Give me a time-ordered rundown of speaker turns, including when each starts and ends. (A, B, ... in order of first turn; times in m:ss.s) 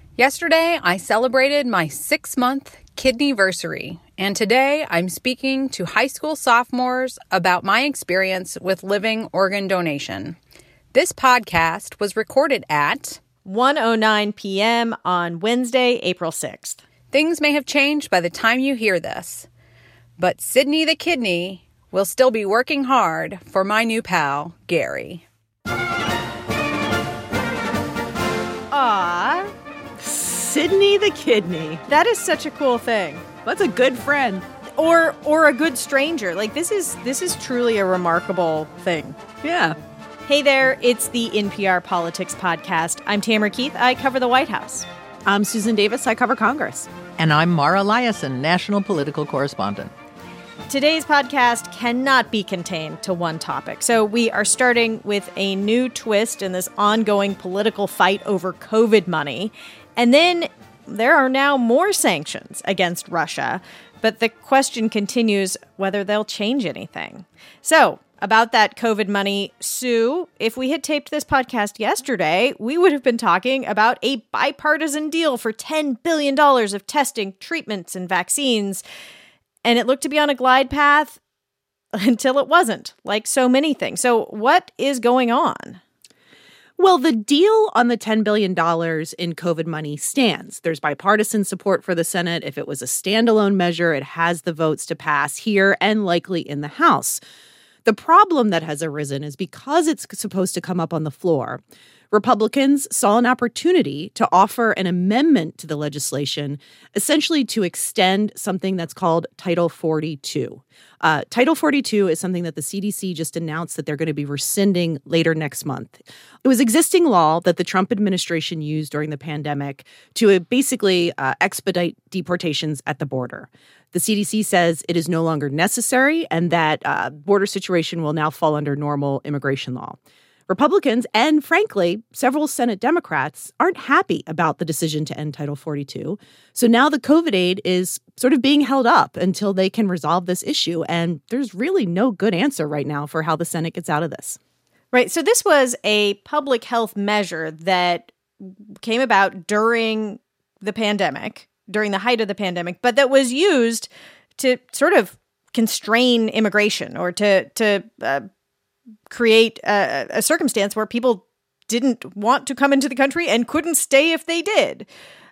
0:00.2-0:10.4 A
0:10.9-0:13.2 A
0:13.4-0:16.8 B
0:17.1-0:19.5 A
0:20.2-0:25.2 A
0:28.7-0:29.5 B
0:30.0-0:31.8 C
0:31.9-0:33.3 B
0:33.4-0:34.4 C
0:34.8-0:39.2 B
0:39.4-0:39.8 C
0:40.3-0:44.9 B
0:45.3-0:46.9 C
0:47.2-0:49.9 D
0:50.7-1:18.8 B
1:19.6-1:21.2 B
1:21.9-1:25.8 B
1:26.8-1:37.2 C
1:37.8-1:41.6 C
1:42.1-2:10.0 C
2:10.5-2:24.4 C
2:24.9-2:38.3 B
2:39.1-2:44.9 B